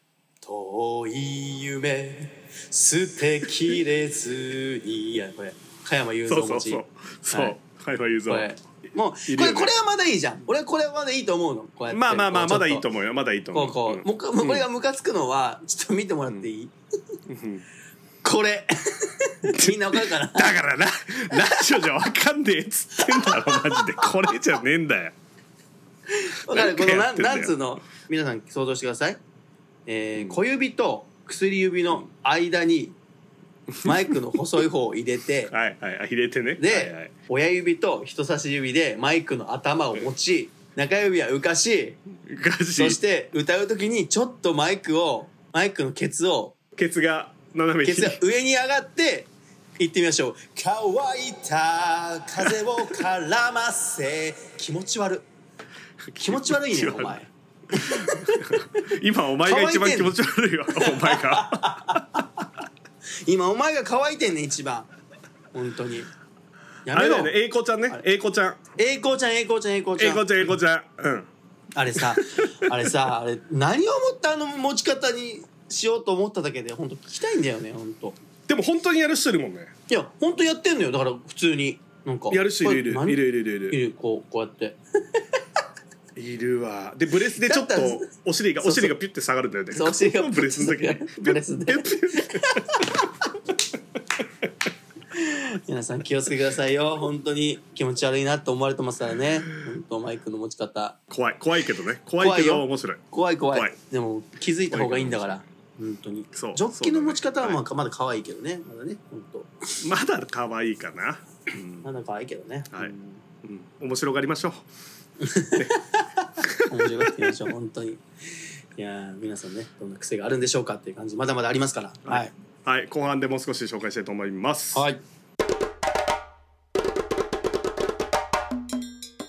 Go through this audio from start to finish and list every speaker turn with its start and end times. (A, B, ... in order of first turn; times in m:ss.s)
0:00.4-0:07.6 A
0:06.3-0:08.5 B
0:08.3-0:12.9 A
0:09.3-0:09.7 B
0:11.9-0:14.6 B
0:13.5-0:16.7 A
0:17.3-0:17.6 B
0:18.2-0:20.6 A
0:19.4-0:25.2 B
0:21.3-0:21.7 A
0:23.0-0:24.2 A
0:26.1-0:29.2 A
0:26.5-0:27.6 B
0:29.9-0:33.0 A
0:33.7-0:34.2 B
0:33.8-0:35.5 A
0:35.5-0:37.1 B
0:36.6-0:42.0 A
0:42.2-0:43.0 B
0:42.8-0:46.6 A
0:46.8-0:48.2 B
0:47.8-0:55.3 A
0:56.1-0:57.2 B
0:56.2-0:58.8 A
0:57.7-1:02.2 B
0:59.4-1:00.2 A
1:00.7-1:02.4 A
1:03.2-1:04.9 A
1:05.5-1:06.1 A
1:06.8-1:07.4 A
1:06.9-1:08.6 B
1:08.8-1:10.3 A
1:10.0-1:11.3 B
1:11.8-1:18.2 A
1:12.0-1:12.7 B
1:18.5-1:19.7 B
1:19.9-1:25.2 A
1:22.3-1:23.8 B
1:26.2-1:33.1 B
1:27.3-1:28.1 A
1:28.6-1:29.0 A
1:29.7-1:33.1 A
1:35.1-1:41.0 A
1:41.1-1:43.7 B
1:42.2-1:49.8 A
1:44.7-1:45.4 B
1:46.3-1:47.6 B
1:49.8-1:51.9 B
1:51.8-1:53.2 A
1:53.4-1:54.7 B
1:55.2-2:02.3 A
1:56.4-1:57.4 B
2:02.1-2:04.9 B
2:04.7-2:05.0 A